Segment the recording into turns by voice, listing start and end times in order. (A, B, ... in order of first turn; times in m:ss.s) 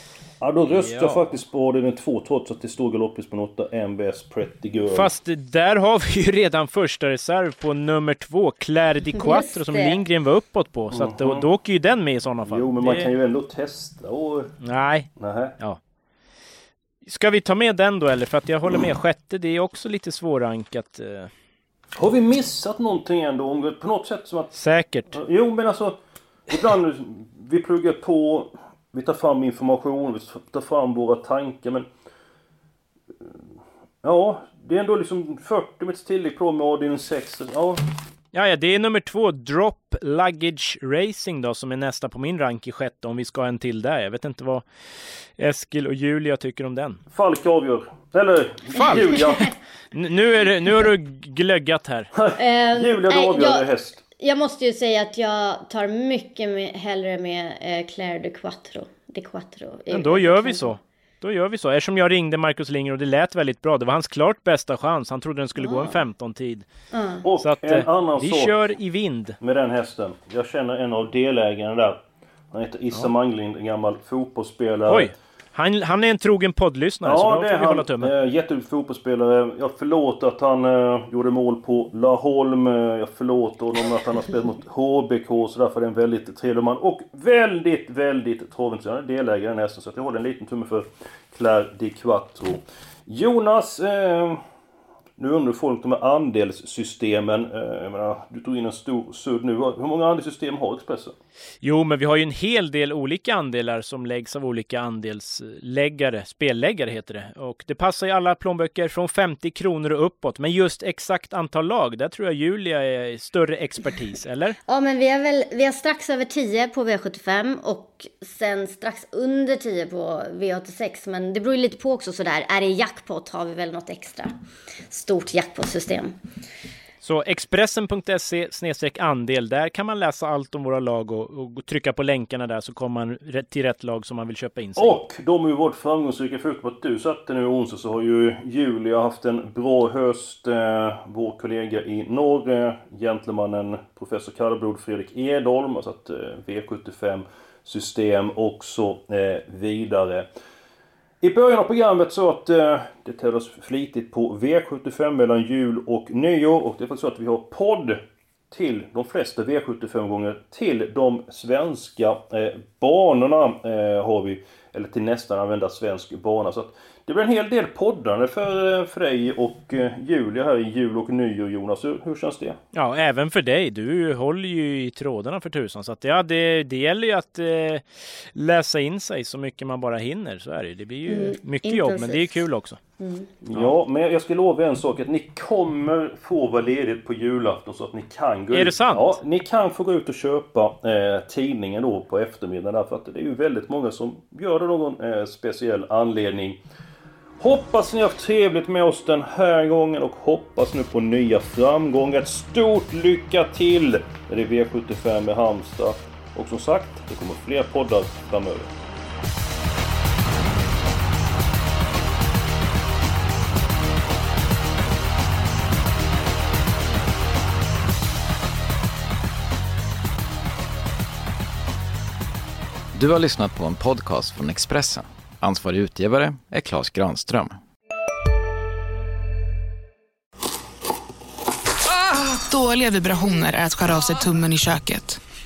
0:00.4-0:05.1 A
0:00.7-0:01.4 B
0:04.9-0:13.1 B
0:09.2-0:10.0 C
0:10.9-0:11.4 A
0:12.5-0:14.5 A
0:14.6-0:15.8 B
0:15.2-0:15.6 A
0:17.1-0:21.3 B
0:22.0-0:24.5 A
0:24.5-0:25.1 B
0:25.1-0:26.0 A
0:26.5-0:31.9 A
0:34.0-0:37.8 A
0:38.3-0:44.6 B
0:45.4-0:47.0 B
0:47.1-0:49.5 A
0:48.8-0:52.1 B
0:52.2-0:54.0 A
0:52.4-0:53.7 C
0:54.2-1:00.8 C
0:59.9-1:06.6 B
1:05.6-1:06.0 C
1:06.9-1:07.2 C
1:07.2-1:08.6 A
1:07.4-1:09.4 B
1:09.4-1:12.0 A
1:12.5-1:15.1 A
1:14.9-1:18.1 B
1:17.0-1:34.4 A
1:35.2-1:41.2 A
1:41.6-1:54.6 B
1:54.7-2:04.3 C
2:04.9-2:06.1 C
2:07.0-2:15.0 B
2:14.8-2:30.3 A
2:31.2-2:52.6 A
2:52.7-3:02.8 B
3:01.1-3:02.4 C
3:03.0-3:03.3 C
3:03.4-3:16.6 A
3:08.5-3:09.2 B
3:17.4-3:28.7 A
3:43.0-3:47.6 D
3:51.9-3:55.2 E